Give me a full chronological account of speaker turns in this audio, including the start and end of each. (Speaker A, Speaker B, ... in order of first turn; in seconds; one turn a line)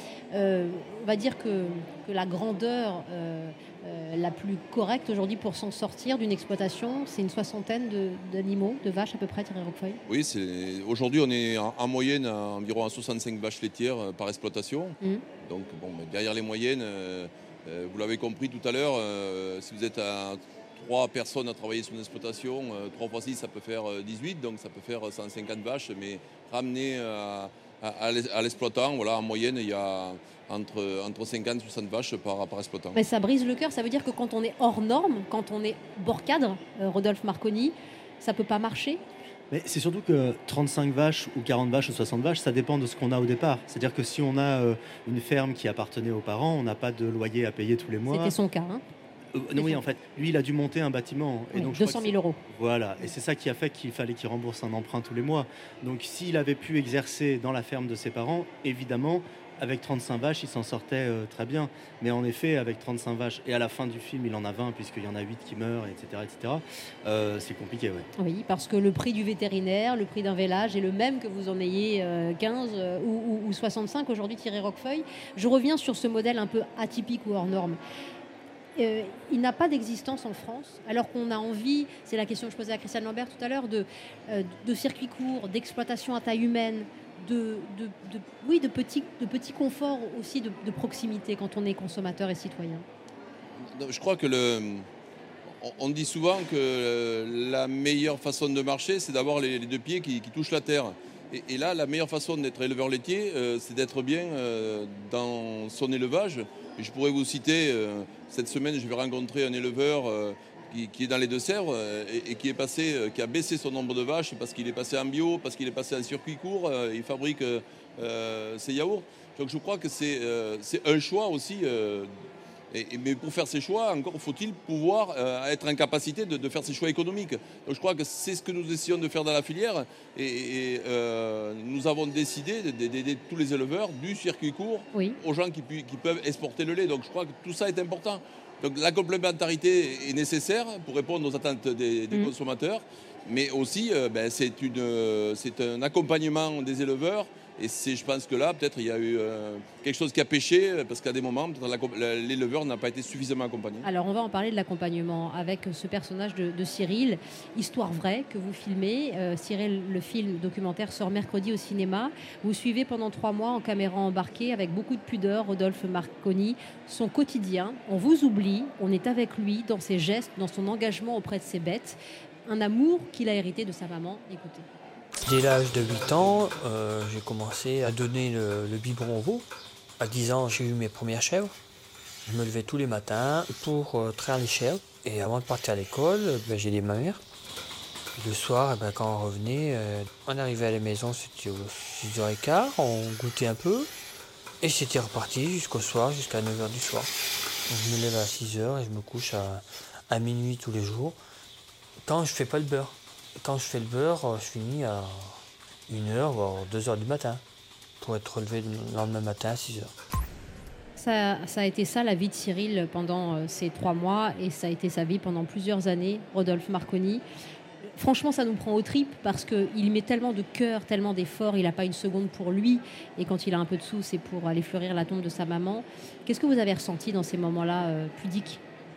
Speaker A: 0.3-10.0
Speaker B: 10.1-33.0
Speaker A: 32.9-39.0
Speaker C: 39.5-48.4
Speaker A: 48.1-48.8
Speaker C: 49.3-68.1
Speaker A: 51.5-52.4
Speaker A: 68.2-77.8
Speaker A: 78.8-92.9
Speaker B: 93.6-94.9
Speaker B: 95.6-122.1
Speaker B: 122.7-153.9
Speaker A: 153.8-174.7
Speaker D: 175.2-179.5
Speaker D: 180.0-181.6
Speaker D: 182.3-187.2
Speaker D: 188.2-193.9
Speaker D: 194.6-197.1
Speaker D: 197.7-201.2
Speaker D: 202.1-207.4
Speaker D: 208.0-209.9
Speaker A: 211.0-217.2
Speaker A: 218.0-228.6